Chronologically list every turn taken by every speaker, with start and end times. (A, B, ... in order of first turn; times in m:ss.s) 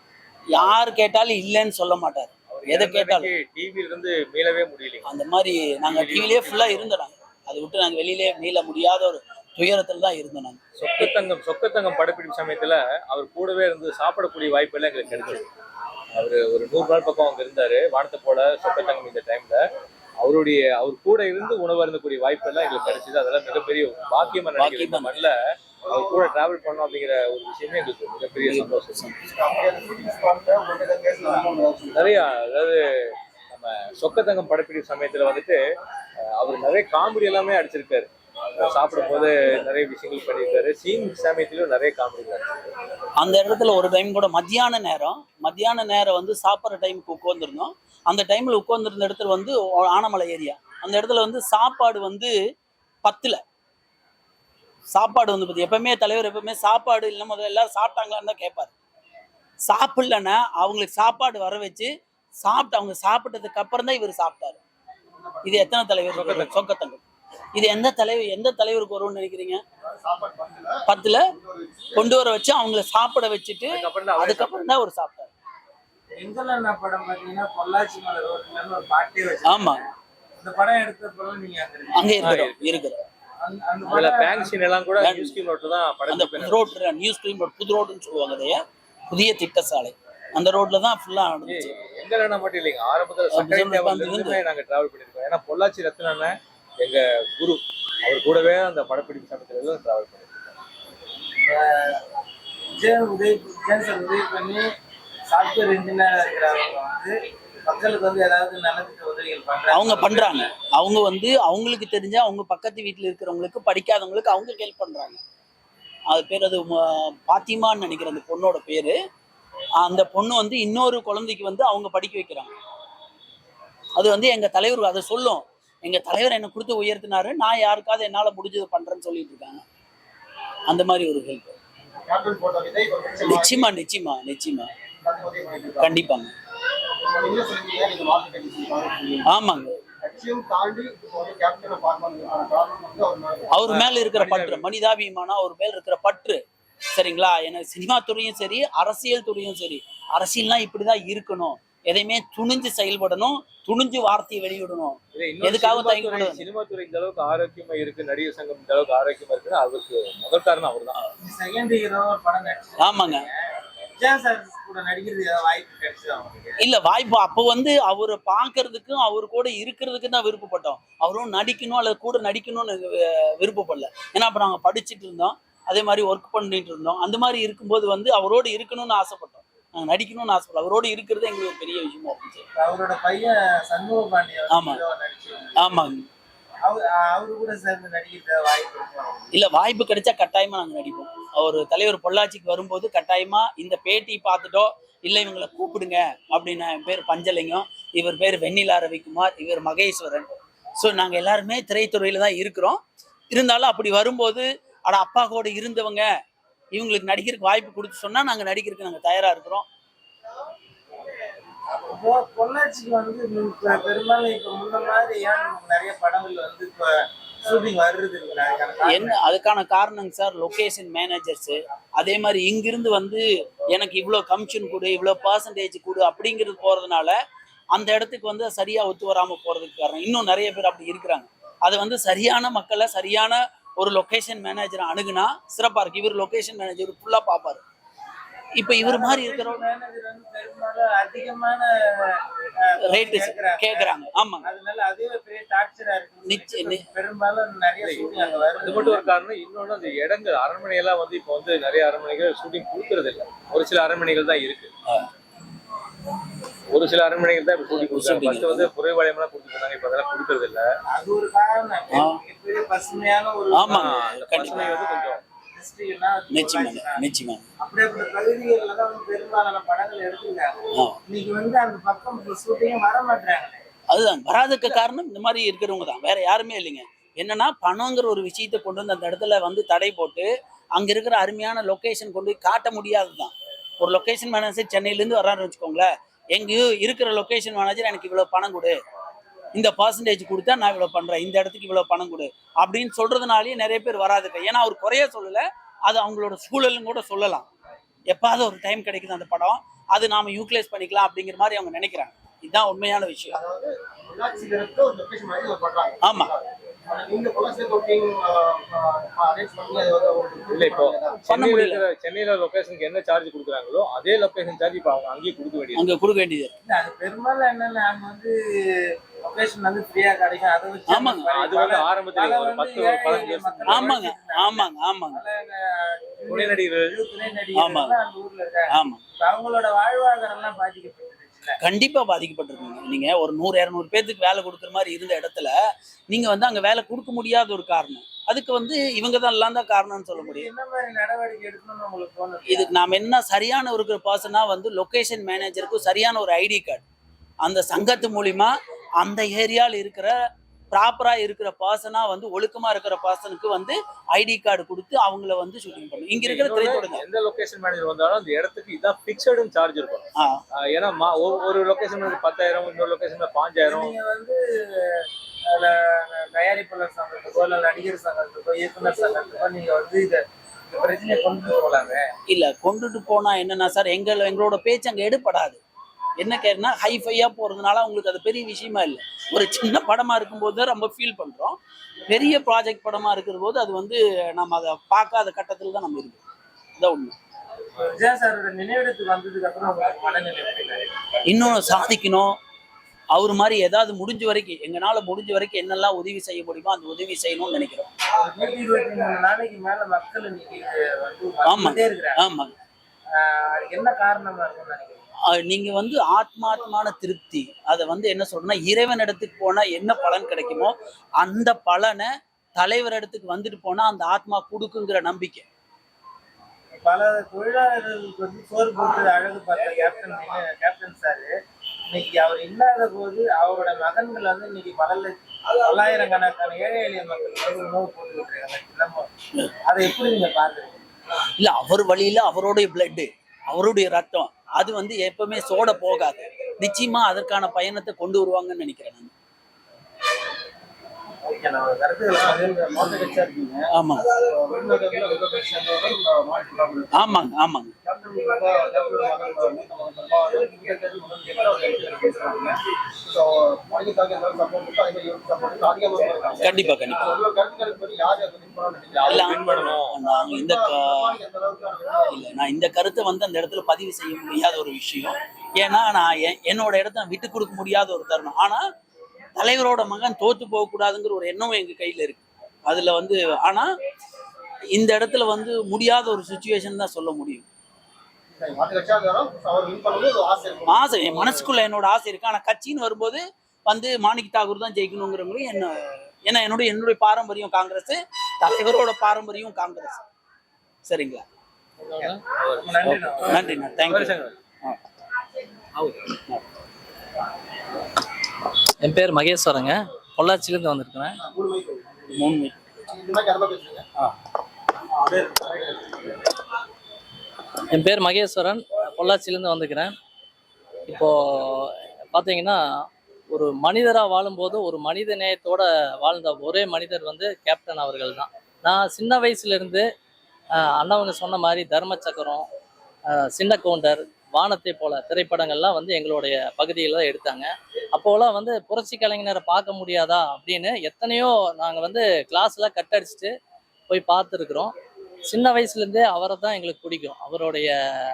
0:00.5-0:03.3 A
0:02.5-0:05.2 B
0:05.0-0:10.6 A
0:05.8-0:06.9 B
0:10.8-0:15.5 B
0:16.1-0:19.6 B
0:20.2-0:29.1 B
0:24.6-0:25.1 A
0:25.9-0:26.2 C
0:28.4-0:29.1 A
0:29.2-0:32.2 C
0:31.9-0:35.6 B
0:36.3-0:42.5 B
0:43.2-0:52.3 A
0:53.0-0:53.4 A
0:54.9-0:58.7 A
0:59.7-1:04.6 A
1:05.1-1:05.7 C
1:05.4-1:07.0 A
1:06.1-1:06.6 B
1:07.6-1:09.6 A
1:09.8-1:12.1 C
1:10.9-1:11.2 A
1:12.0-1:15.3 A
1:13.7-1:14.6 B
1:16.2-1:22.1 D
1:19.4-1:19.8 A
1:21.9-1:23.0 A
1:22.2-1:22.8 B
1:23.4-1:24.6 D
1:23.9-1:26.7 B
1:25.0-1:25.4 A
1:26.1-1:31.7 A
1:31.4-1:40.6 B
1:33.3-1:34.4 A
1:41.4-1:42.0 D
1:42.8-1:44.7 D
1:45.3-1:47.1 D
1:47.7-1:50.4 D
1:49.7-1:55.2 A
1:56.1-1:59.0 A
1:59.8-2:02.5 A
2:04.0-2:09.6 A
2:10.7-2:11.6 A
2:12.0-2:13.7 C
2:13.3-2:14.7 A
2:15.0-2:16.0 C
2:15.8-2:16.3 A
2:17.0-2:19.3 C
2:19.3-2:19.7 A
2:20.0-2:23.5 C
2:23.5-2:26.4 A
2:23.7-2:24.7 B
2:26.9-2:36.4 A
2:35.1-2:41.0 B
2:41.2-2:43.4 D
2:42.8-2:43.2 A
2:44.0-2:46.6 D
2:46.6-3:02.4 A
3:02.6-3:05.7 D
3:04.5-3:04.8 A
3:05.6-3:06.1 A
3:06.6-3:09.3 D
3:09.3-3:22.8 A
3:23.3-3:26.1 A
3:26.7-3:29.7 A
3:31.8-3:39.2 D
3:38.8-3:47.2 A
3:47.7-3:57.6 A
3:58.6-3:59.6 A
3:58.7-4:09.0 D
4:02.8-4:04.5 A
4:06.3-4:06.8 A
4:07.8-4:08.1 B
4:08.3-4:08.9 C
4:08.6-4:14.7 B
4:16.7-4:20.6 B
4:17.7-4:18.7 A
4:20.9-4:27.0 D
4:21.9-4:22.2 A
4:23.5-4:24.7 A
4:23.7-4:25.2 B
4:26.3-4:27.4 A
4:27.6-4:33.6 D
4:33.9-4:48.8 A
4:49.6-4:57.5 A
4:58.1-5:03.4 A
5:03.3-5:11.2 C
5:06.0-5:06.3 A
5:10.5-5:15.9 B
5:11.3-5:11.8 A
5:15.7-5:16.5 A
5:16.6-5:31.6 D
5:20.9-5:21.3 A
5:21.3-5:23.9 B
5:23.7-5:25.2 A
5:26.3-5:27.0 B
5:27.6-5:28.0 A
5:28.7-5:29.0 A
5:31.6-5:35.5 A
5:36.1-5:40.5 A
5:40.2-5:42.7 D
5:42.5-5:46.8 A
5:47.4-5:50.2 A
5:50.7-5:57.0 A
5:56.2-6:03.9 B
6:00.2-6:00.4 A
6:03.6-6:12.0 D
6:12.3-6:15.6 A
6:16.2-6:26.2 A
6:26.8-6:27.2 A
6:27.8-6:30.9 D
6:31.3-6:32.3 A
6:33.1-6:37.9 A
6:38.2-6:42.2 D
6:41.4-6:42.5 A
6:43.2-6:45.0 D
6:45.3-6:55.5 A
6:56.8-7:01.3 D
7:01.9-7:09.1 D
7:09.7-7:10.8 D
7:11.4-7:19.1 A
7:21.2-7:23.7 D
7:22.1-7:27.2 C
7:23.7-7:24.1 A
7:26.9-7:27.7 A
7:27.8-7:42.2 C
7:36.4-7:37.2 A
7:38.9-7:40.0 B
7:39.1-7:41.2 A
7:42.1-7:48.6 A
7:49.4-7:53.7 A
7:54.8-7:57.4 A
7:58.4-8:01.4 C
8:00.7-8:10.0 A
8:10.9-8:11.2 A
8:11.8-8:13.6 D
8:12.4-8:14.4 B
8:13.2-8:14.8 A
8:15.8-8:16.1 B
8:18.8-8:21.2 E
8:21.2-8:22.0 C
8:22.1-8:22.6 A
8:22.9-8:23.9 C
8:25.0-8:26.0 C
8:27.7-8:29.9 E
8:30.9-8:32.6 E
8:33.3-8:39.8 E
8:40.6-8:42.5 E
8:43.1-8:53.3 E
8:53.9-8:54.7 E
8:55.3-8:57.7 E